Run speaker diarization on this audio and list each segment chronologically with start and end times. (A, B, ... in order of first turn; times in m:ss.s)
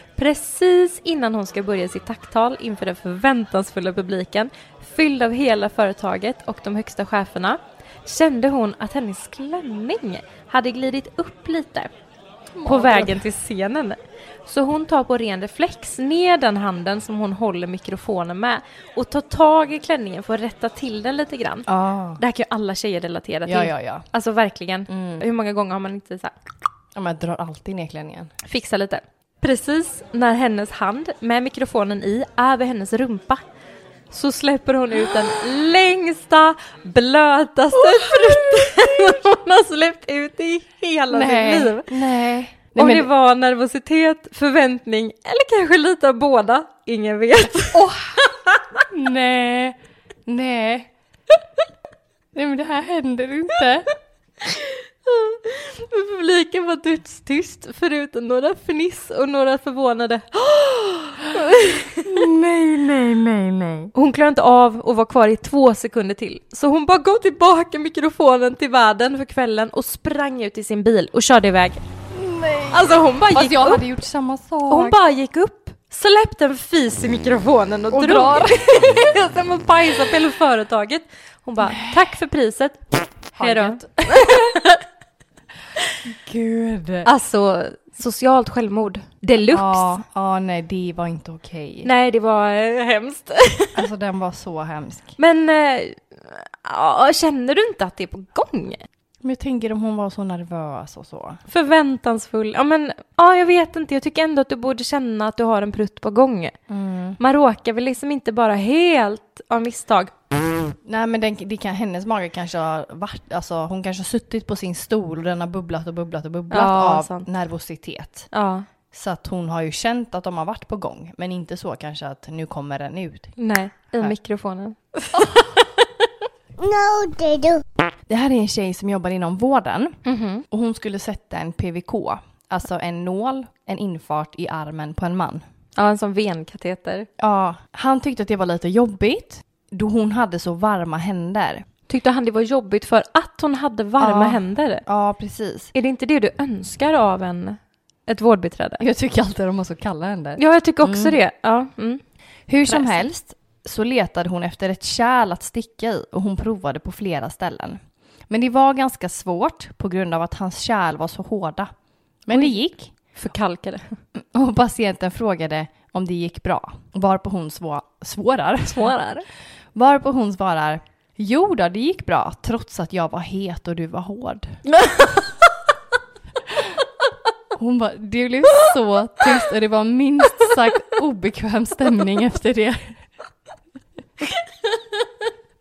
0:00.2-0:11.9 A
0:12.5-0:13.2 B
0:12.6-0:21.7 A
0:21.7-0:22.2 B
0:22.2-0:26.3 A
0:23.4-0:24.1 B
0:24.9-0:25.2 B
0:26.9-0:28.3 B
0:28.4-0:33.4 A
0:34.1-0:41.9 A
0:37.7-0:39.2 B
0:41.1-0:43.1 B
0:42.8-0:47.9 A
0:47.7-0:48.2 B
0:48.9-0:49.8 B
0:50.3-0:50.9 B
0:52.3-0:53.8 B
0:54.4-1:02.1 A
1:02.0-1:03.9 B
1:03.9-1:11.8 A
1:12.1-1:15.0 B
1:12.7-1:13.8 A
1:14.7-1:24.8 A
1:17.9-1:19.0 B
1:21.6-1:22.1 B
1:23.3-1:24.6 B
1:26.0-1:27.1 B
1:27.0-1:30.0 A
1:29.5-1:31.9 B
1:31.8-1:33.8 A
1:33.8-1:35.2 B
1:35.2-1:38.8 A
1:39.2-1:41.4 B
1:41.5-1:46.5 A
1:46.7-1:47.2 B
1:47.2-1:50.1 A
1:50.8-1:58.3 B
1:56.5-1:57.3 A
1:58.3-1:58.7 A
1:58.9-2:03.4 B
2:03.4-2:05.5 A
2:08.1-2:10.0 B
2:10.1-2:10.4 A
2:10.5-2:15.4 B
2:15.8-2:17.1 A
2:17.2-2:21.6 B
2:21.9-2:24.8 A
2:24.0-2:25.7 B
2:25.7-2:28.8 A
2:28.8-2:31.2 B
2:30.4-2:32.0 A
2:32.5-2:41.7 B
2:32.7-2:33.0 A
2:42.2-2:42.9 B
2:43.2-2:44.0 A
2:44.2-2:48.9 B
2:48.7-2:49.2 A
2:49.7-2:54.6 B
2:54.7-2:55.2 A
2:57.5-3:03.0 B
3:04.7-3:05.0 A